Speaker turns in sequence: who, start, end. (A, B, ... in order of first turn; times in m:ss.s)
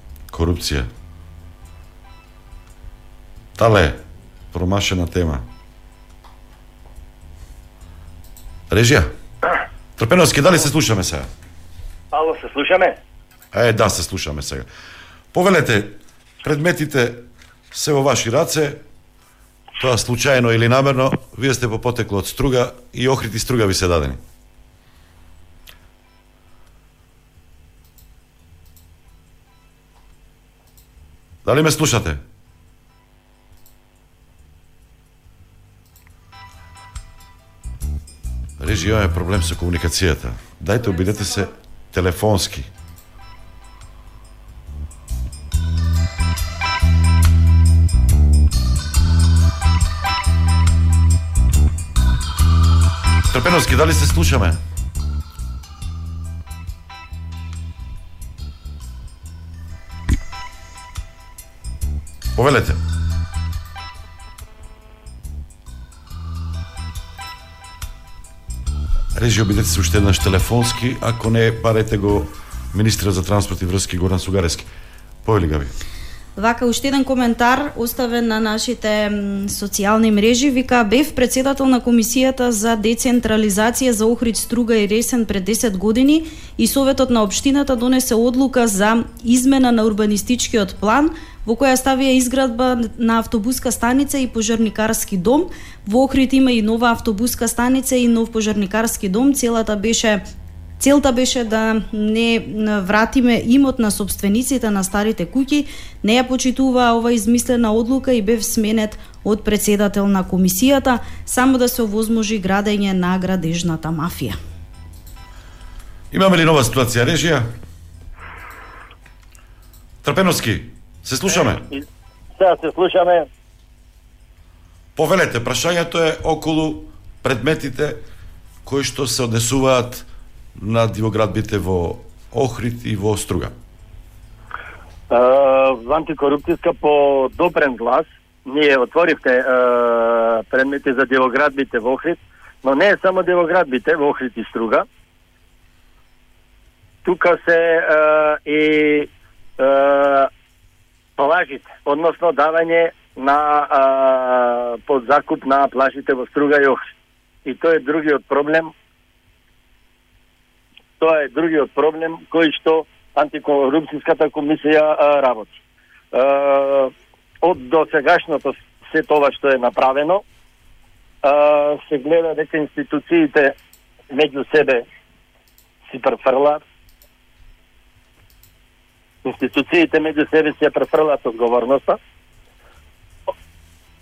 0:00.3-0:00.9 A
0:03.6-0:04.0 A
0:04.5-0:05.4 A
0:08.7-0:09.1 A
0:10.0-0:11.3 A
0:12.1-0:13.0 B
0:13.5-0:14.7 A
0:15.3-0:17.2 A
0:17.7-0:18.8 A
0:19.8-0:24.2 A
0:31.4-0:32.2 A
0:38.6-0:42.7 A
0:53.3-0:54.6 A
1:02.3-1:02.8 A
1:09.1-1:14.7 A
1:15.2-1:15.7 A
1:16.4-1:40.2 C
1:40.8-1:54.4 C
1:56.1-1:57.5 A
2:00.0-2:01.6 A
2:01.3-2:01.8 B
2:02.4-2:03.3 B
2:05.0-2:08.0 A
2:08.6-2:10.0 A
2:10.6-2:13.5 A
2:15.1-2:24.8 B
2:27.0-2:30.3 B
2:31.2-2:36.9 B
2:37.4-2:38.7 B
2:41.0-2:45.6 B
2:46.1-2:50.2 B
2:51.2-2:53.5 B
2:54.1-2:54.8 B
2:55.9-2:56.6 B
2:59.2-3:02.0 B